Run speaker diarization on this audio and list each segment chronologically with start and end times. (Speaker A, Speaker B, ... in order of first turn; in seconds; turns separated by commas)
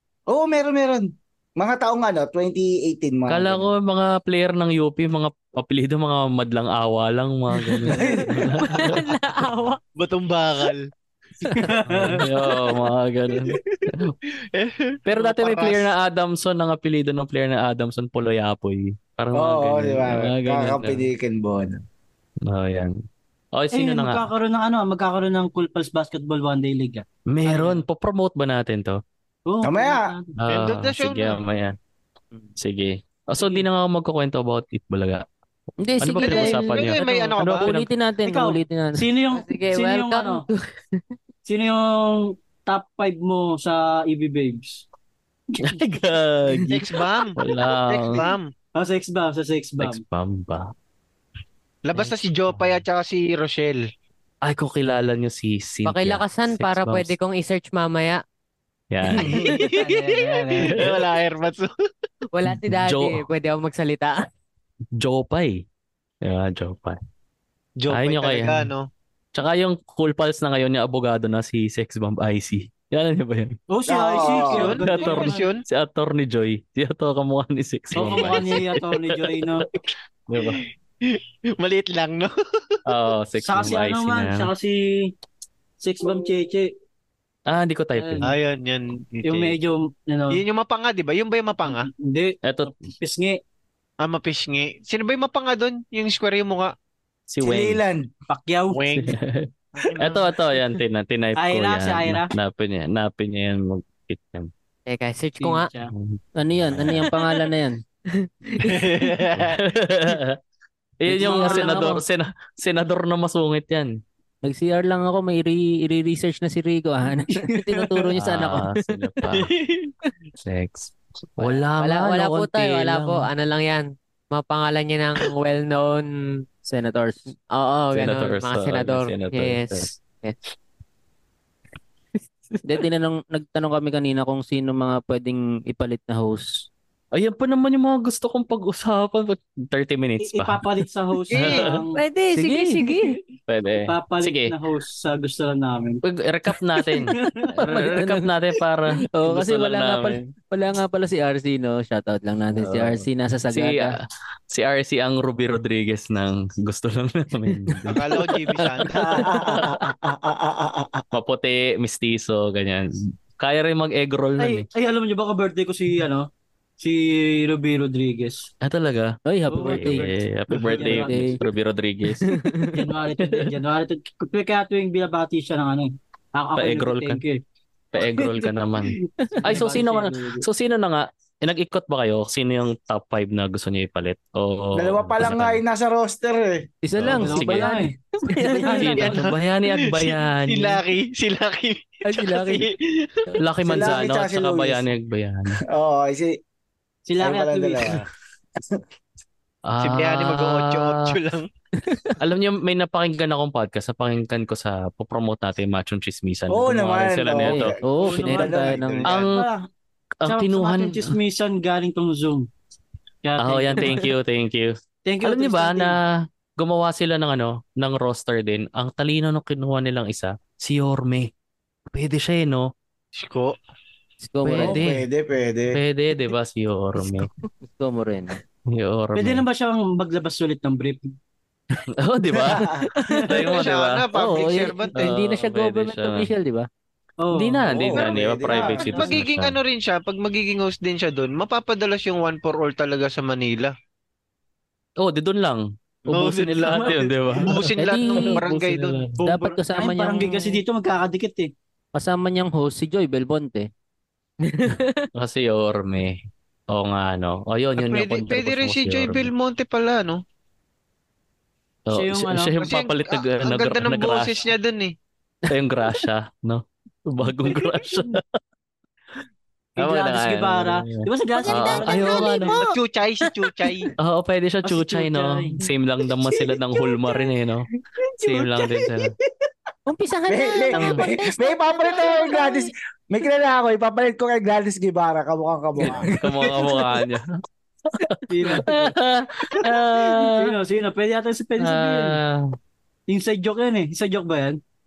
Speaker A: 0.3-3.7, Speaker B: 3.3-9.0, Speaker A: 7.9-8.6, Speaker C: 8.6-9.8, Speaker D: 10.0-10.9, Speaker D: 11.5-12.2, Speaker E: 11.6-12.3, Speaker B: 11.9-14.1, Speaker D: 13.5-13.8, Speaker D: 14.6-15.9, Speaker B: 15.1-21.1, Speaker A: 19.4-21.8, Speaker B: 22.4-22.9, Speaker B: 23.5-24.3, Speaker E: 23.7-27.8, Speaker B: 27.3-29.0, Speaker E: 29.4-30.4, Speaker A: 29.6-30.1, Speaker B: 30.4-31.8, Speaker D: 30.5-31.4, Speaker B: 32.6-35.2, Speaker E: 33.4-33.6, Speaker F: 35.8-36.7, Speaker B: 36.0-37.9, Speaker D: 36.2-37.7, Speaker F: 37.6-39.0, Speaker E: 38.2-40.4, Speaker C: 39.3-41.0, Speaker E: 41.5-44.9, Speaker E: 45.5-46.0, Speaker B: 45.6-48.3, Speaker D: 46.7-47.4, Speaker D: 47.9-48.5, Speaker E: 48.7-50.0, Speaker B: 49.8-50.7, Speaker D: 51.9-53.9, Speaker B: 52.0-52.8, Speaker B: 54.4-57.1, Speaker C: 55.9-58.2, Speaker B: 58.9-59.7, Speaker D: 59.5-61.7, Speaker E: 59.5-61.0, Speaker B: 60.6-61.0, Speaker C: 62.3-64.3, Speaker B: 62.5-63.3, Speaker B: 65.0-65.6, Speaker B: 66.2-67.0, Speaker D: 67.8-68.9, Speaker B: 67.9-68.7, Speaker B: 69.3-73.6, Speaker E: 73.7-75.5, Speaker A: 73.9-74.7, Speaker D: 74.3-75.6, Speaker B: 74.5-79.7, Speaker E: 77.9-79.7, Speaker B: 80.3-80.6, Speaker D: 80.4-82.8, Speaker B: 82.9-84.5, Speaker E: 83.4-85.1, Speaker E: 85.8-86.7, Speaker B: 87.5-88.3, Speaker E: 88.0-88.2, Speaker D: 88.2-89.6, Speaker E: 89.2-90.4, Speaker D: 90.3-91.9, Speaker E: 91.7-93.4, Speaker B: 92.4-92.8, Speaker D: 94.0-96.7, Speaker B: 97.3-97.8, Speaker A: 97.4-98.1, Speaker E: 98.3-99.1, Speaker D: 98.7-99.2, Speaker B: 99.0-104.5, Speaker E: 101.4-102.3, Speaker C: 104.9-105.7, Speaker E: 105.4-105.9, Speaker B: 105.9-107.1, Speaker F: 106.4-107.8, Speaker C: 107.1-107.5, Speaker C: 108.1-109.1, Speaker D: 108.6-109.6, Speaker B: 109.3-110.4, Speaker B: 111.0-113.9, Speaker F: 111.1-112.0, Speaker E: 111.2-111.8, Speaker F: 114.4-118.8, Speaker B: 118.1-119.5, Speaker D: 119.3-119.9, Speaker B: 120.4-123.3, Speaker C: 121.8-126.4, Speaker F: 126.7-127.2, Speaker C: 127.5-130.4, Speaker B: 127.9-129.9, Speaker C: 132.5-132.8, Speaker F: 132.7-136.7, Speaker B: 137.1-140.7, Speaker E: 140.2-141.9, Speaker B: 141.3-141.8, Speaker D: 141.3-141.7, Speaker C: 141.9-143.2, Speaker F: 142.3-142.9, Speaker B: 143.5-144.6, Speaker E: 143.9-146.0, Speaker B: 146.0-150.3, Speaker E: 146.5-147.8, Speaker F: 147.7-148.3, Speaker F: 149.1-153.9, Speaker B: 152.6-158.2, Speaker D: 157.9-159.4, Speaker F: 158.6-159.7, Speaker A: 159.1-161.1, Speaker B: 161.1-164.7, Speaker E: 164.4-168.5, Speaker B: 168.6-172.4, Speaker F: 169.3-170.1, Speaker E: 169.5-171.4, Speaker F: 170.8-171.4, Speaker F: 172.2-172.8, Speaker E: 172.7-177.4, Speaker B: 176.6-177.2, Speaker B: 177.9-185.6, Speaker E: 177.9-180.4, Speaker A: 184.8-186.7, Speaker F: 186.8-189.1, Speaker B: 187.0-187.9, Speaker E: 187.2-189.3, Speaker B: 188.8-190.8, Speaker D: 188.9-193.2, Speaker F: 192.1-192.7, Speaker B: 193.4-195.6, Speaker A: 193.6-194.8, Speaker A: 195.7-196.4, Speaker E: 197.1-198.0, Speaker A: 197.2-198.1, Speaker B: 199.7-201.2, Speaker D: 199.8-201.5, Speaker B: 202.2-207.8, Speaker A: 206.5-208.9, Speaker F: 207.4-209.1, Speaker E: 207.8-209.6, Speaker D: 208.0-209.2, Speaker B: 209.1-209.5, Speaker B: 210.2-211.1, Speaker E: 210.3-212.5, Speaker E: 213.2-214.1, Speaker B: 213.4-221.3, Speaker E: 215.1-215.9, Speaker B: 221.9-222.7, Speaker D: 223.1-223.6, Speaker F: 224.2-224.8, Speaker B: 224.4-225.1, Speaker A: 224.6-225.8, Speaker B: 225.7-227.3, Speaker F: 227.6-228.4, Speaker B: 228.7-229.4, Speaker E: 229.2-231.1, Speaker B: 232.0-234.1, Speaker A: 232.3-233.2, Speaker E: 233.1-233.5, Speaker D: 233.4-234.9, Speaker F: 234.1-236.7, Speaker B: 234.9-236.3, Speaker E: 237.2-239.2, Speaker B: 237.3-239.6, Speaker A: 237.7-238.9, Speaker D: 238.9-243.7, Speaker B: 245.0-249.2, Speaker D: 246.1-249.2, Speaker E: 246.7-247.5, Speaker F: 247.8-248.4, Speaker E: 249.2-251.5, Speaker F: 249.2-250.6, Speaker F: 251.9-253.7, Speaker C: 254.4-255.1, Speaker B: 255.1-259.3, Speaker D: 257.8-260.2, Speaker B: 261.9-264.4, Speaker E: 261.9-262.5, Speaker D: 262.6-264.9, Speaker B: 265.5-268.2, Speaker E: 269.8-272.7, Speaker B: 269.8-272.6, Speaker D: 272.5-273.9, Speaker B: 274.0-277.7, Speaker E: 274.6-277.3, Speaker E: 278.1-279.0, Speaker B: 278.2-279.1, Speaker F: 279.9-282.7, Speaker A: 280.3-286.1, Speaker B: 280.7-281.0, Speaker F: 285.8-286.2, Speaker B: 285.9-287.4, Speaker B: 287.9-290.6, Speaker E: 288.3-288.9, Speaker E: 289.5-292.2, Speaker B: 291.6-292.6, Speaker E: 293.1-294.6